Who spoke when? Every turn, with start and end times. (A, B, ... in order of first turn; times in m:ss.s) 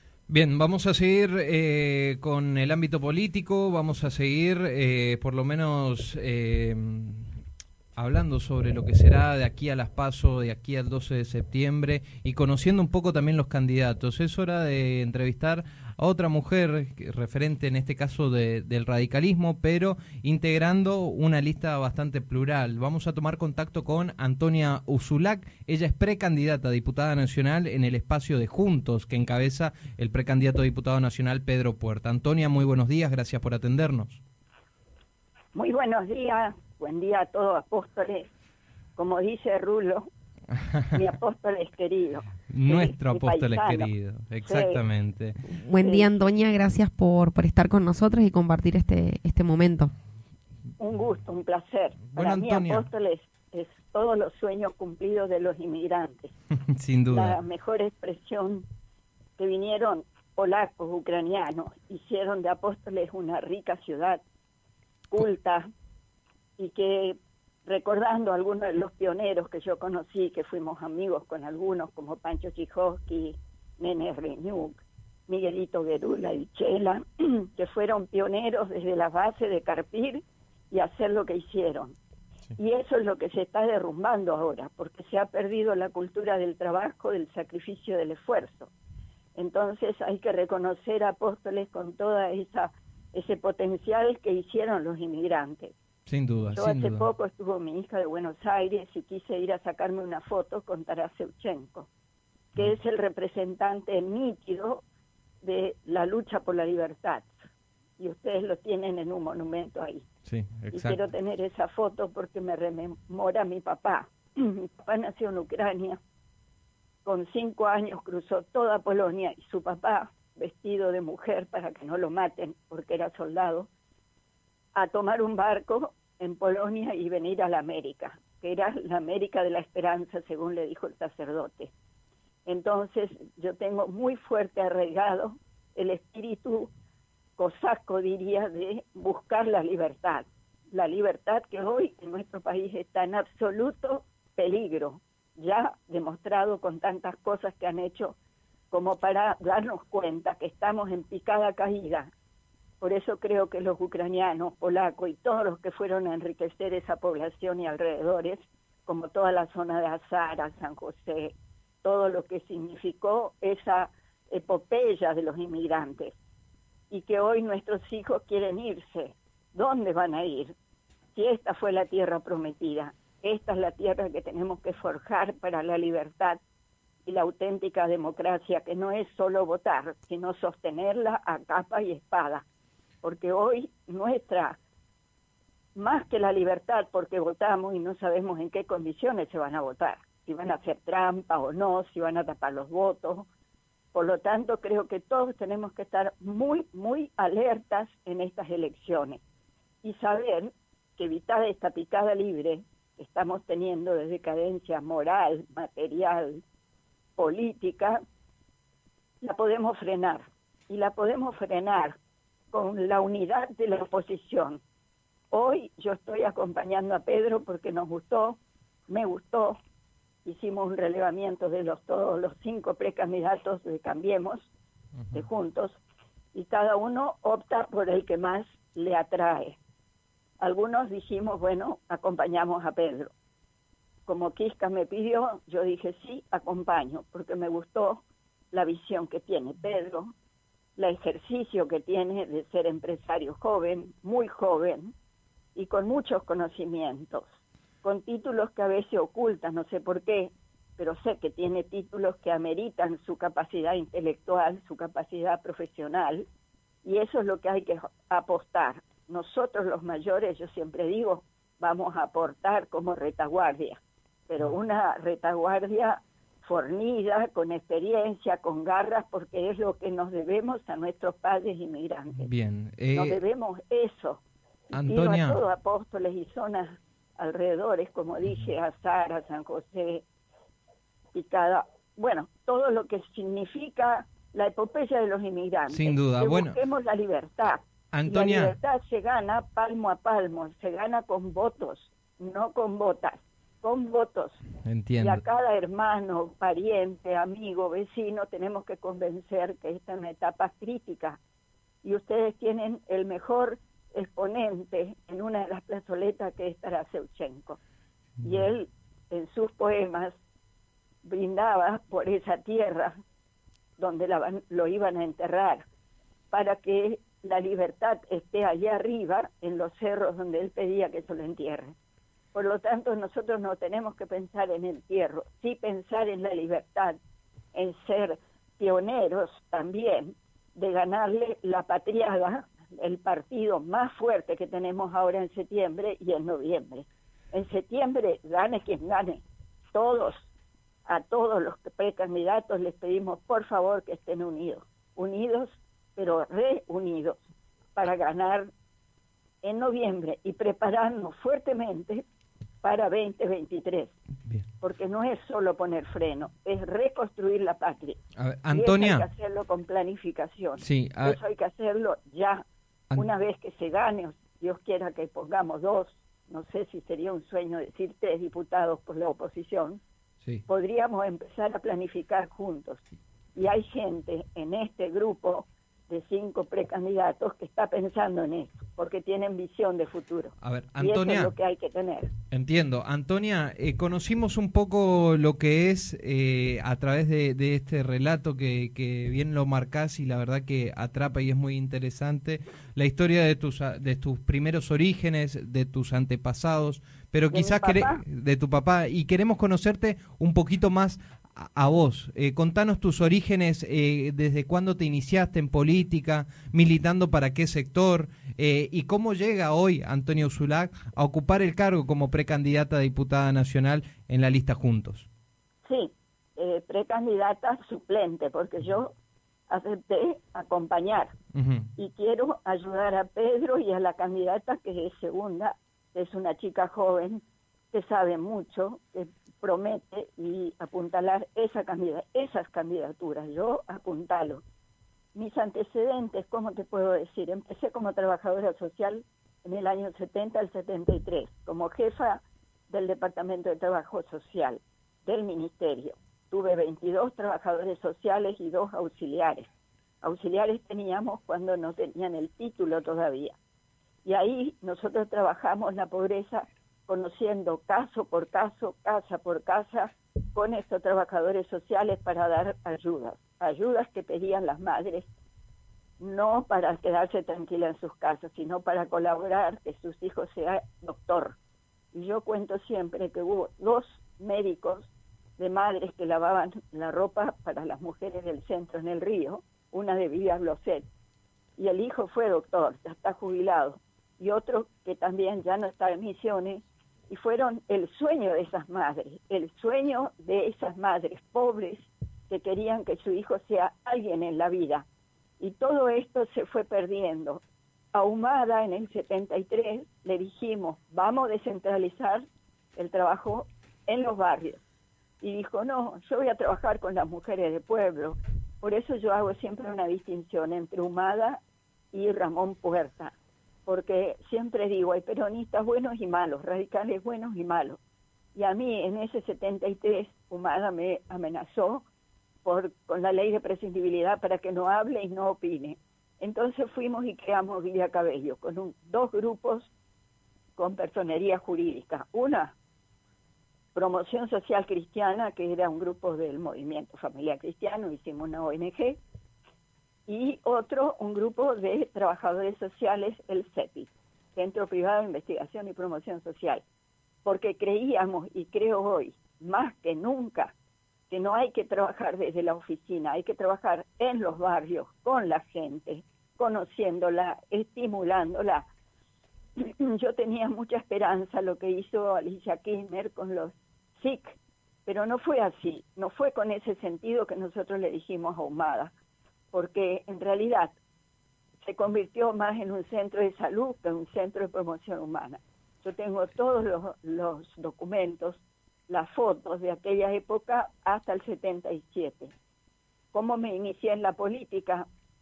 0:00.3-0:07.3 A
0:08.0-0:34.2 A
0:35.5-0:38.3 B
0:39.0-0:40.1 B
0:40.9-0:43.9 B
0:42.5-0:45.4 A
0:44.4-0:44.8 B
0:45.5-0:49.9 C
0:45.8-0:46.1 B
0:50.8-0:56.3 B
0:52.1-0:52.9 A
0:56.7-0:57.4 A
0:57.1-0:58.7 B
0:59.4-1:04.2 B
1:05.1-1:05.7 B
1:06.6-1:22.0 B
1:22.6-1:28.7 B
1:29.4-1:35.8 B
1:36.1-1:37.1 A
1:36.5-1:41.9 B
1:42.6-1:44.8 B
1:45.4-1:47.3 B
1:48.0-1:50.1 B
1:50.3-1:51.0 A
1:50.7-1:56.0 B
1:57.0-2:03.7 B
2:04.8-2:11.7 B
2:12.4-2:16.7 B
2:17.4-2:28.2 B
2:28.7-2:32.1 B
2:32.8-2:46.1 B
2:46.9-2:50.6 B
2:51.1-2:56.4 B
2:57.0-3:02.4 B
3:03.0-3:04.6 B
3:05.8-3:13.3 B
3:13.9-3:19.2 B
3:19.8-3:26.4 B
3:27.2-3:28.0 B
3:29.2-3:32.0 B
3:32.5-3:34.6 B
3:35.3-3:38.4 B
3:38.9-3:39.6 B
3:40.2-3:44.5 B
3:45.1-3:45.8 B
3:46.3-3:49.6 B
3:50.4-3:53.1 B
3:54.1-4:00.1 B
4:00.8-4:04.9 B
4:05.6-4:16.2 B
4:16.8-4:32.3 B
4:32.2-4:33.2 A
4:32.9-4:34.2 B
4:34.7-4:35.4 A
4:34.7-4:40.0 B
4:41.1-4:54.4 B
4:45.7-4:46.6 A
4:47.9-4:48.6 A
4:54.6-4:55.2 A
4:55.0-5:01.2 B
5:01.8-5:07.6 B
5:08.2-5:10.2 B
5:11.0-5:13.0 B
5:13.8-5:15.6 B
5:16.3-5:21.8 B
5:22.3-5:27.0 B
5:27.5-5:40.3 B
5:40.9-5:47.2 B
5:47.8-5:48.5 B
5:49.4-5:52.0 B
5:52.6-5:54.0 B
5:54.6-5:58.0 B
5:58.2-5:59.1 A
5:58.5-6:02.4 B
6:00.6-6:01.2 A
6:02.9-6:09.8 B
6:10.5-6:22.1 B
6:20.4-6:21.3 A
6:22.3-6:55.1 A
6:37.3-6:38.0 B
6:55.6-6:58.9 B
6:59.5-7:01.1 B
7:01.3-7:01.7 A
7:01.8-7:14.4 B
7:15.2-7:29.5 B
7:30.0-7:33.4 B
7:34.0-7:45.1 B
7:46.0-7:51.4 B
7:51.9-8:00.9 B
8:01.6-8:14.9 B
8:15.4-8:17.4 B
8:17.9-8:22.2 B
8:22.8-8:24.6 B
8:25.2-8:31.4 B
8:31.9-8:33.1 B
8:33.7-8:37.8 B
8:38.3-8:41.8 B
8:42.4-8:49.7 B
8:50.6-8:52.5 B
8:53.8-8:59.0 B
9:00.1-9:06.6 B
9:07.2-9:10.5 B
9:11.1-9:18.7 B
9:19.6-9:28.9 B
9:29.5-9:30.8 B
9:31.6-9:42.3 B
9:43.1-9:44.9 B